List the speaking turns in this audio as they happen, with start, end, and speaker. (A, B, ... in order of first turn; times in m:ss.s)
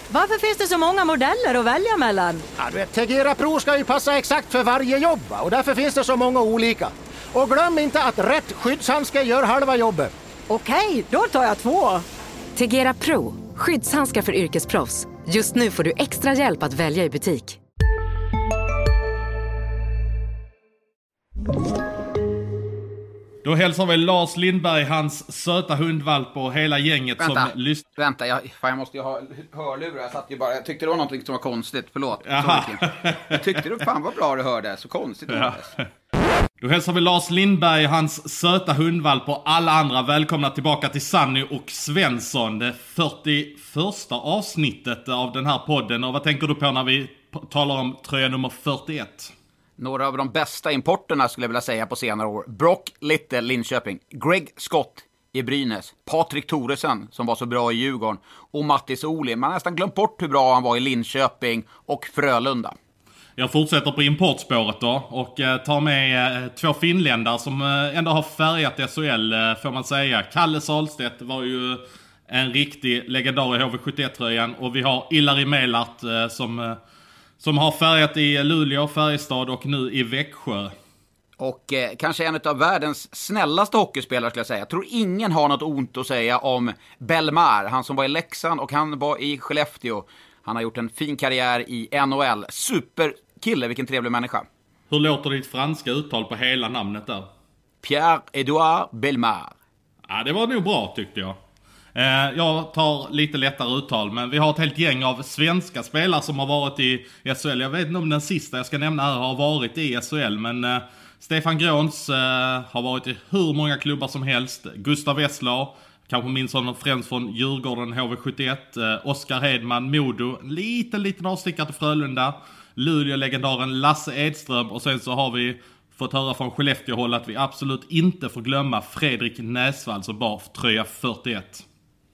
0:00.1-0:02.5 A
0:02.6-0:10.1 B
0:10.5-0:12.0 A
0:12.5-0:17.6 C
0:23.4-0:27.8 D
0:27.2-0:35.7 E
0:32.2-0:33.6 D
0:35.3-0:35.8 D
0:36.6-0:49.3 D
0:49.8-1:02.7 E
1:03.4-1:16.8 D
1:17.4-1:20.7 D
1:21.4-1:34.4 E
1:34.9-1:37.3 D
1:37.8-1:39.5 E
1:40.1-1:41.4 D
1:41.9-2:11.6 D